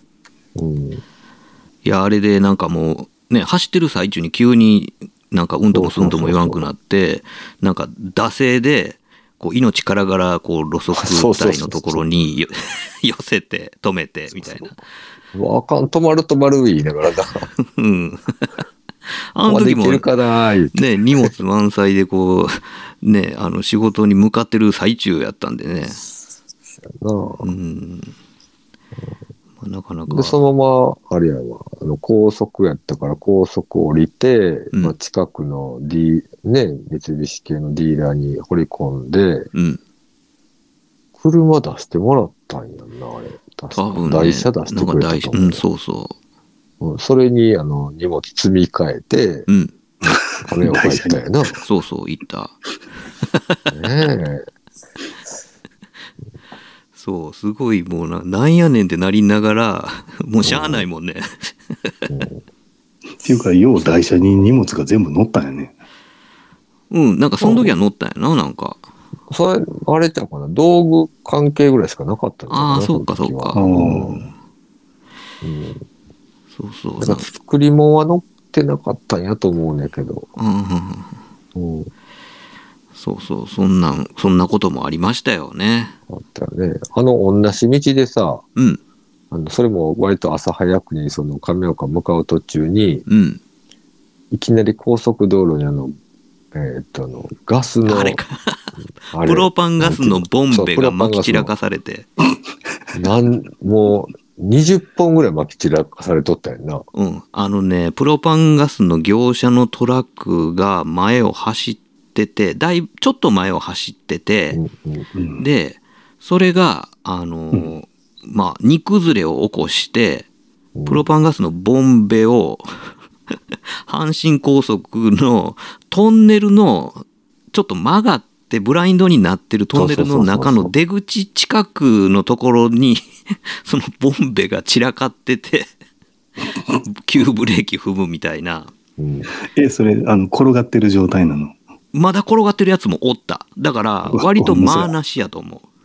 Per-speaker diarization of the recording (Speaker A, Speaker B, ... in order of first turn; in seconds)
Speaker A: 0.5-1.0, 5.7-6.7, 10.9-12.1, 14.4-14.7, 15.3-17.5, 19.4-21.3, 26.8-27.5, 30.1-39.5, 41.2-45.6, 46.8-49.5, 50.4-51.6, 53.7-54.5, 60.4-60.9, 62.1-62.4, 67.4-67.7, 69.3-74.3, 75.4-75.8, 77.0-80.3, 81.5-81.9, 86.1-88.4, 89.3-93.0, 94.3-96.0, 96.5-98.2, 99.1-101.5, 102.9-106.8, 114.5-115.1, 120.7-121.0, 129.7-130.7, 139.0-139.3
Speaker B: 1.8-14.7, 17.7-18.5, 19.3-20.1, 20.7-26.0, 27.4-28.1, 29.6-30.4, 39.5-39.8, 43.7-46.1, 49.5-49.7, 51.6-52.6, 53.3-53.6, 57.0-61.9, 66.9-68.8, 72.5-73.7, 76.5-77.3, 80.4-81.2, 82.9-86.0, 93.1-93.4, 97.8-102.1, 106.9-114.6, 115.4-120.3, 120.8-123.3, 123.8-135.7, 136.9-138.7, 141.9-145.7
Speaker C: 50.1-51.2, 63.2-65.8, 73.5-74.3, 115.1-115.4, 139.4-141.6, 144.1-144.9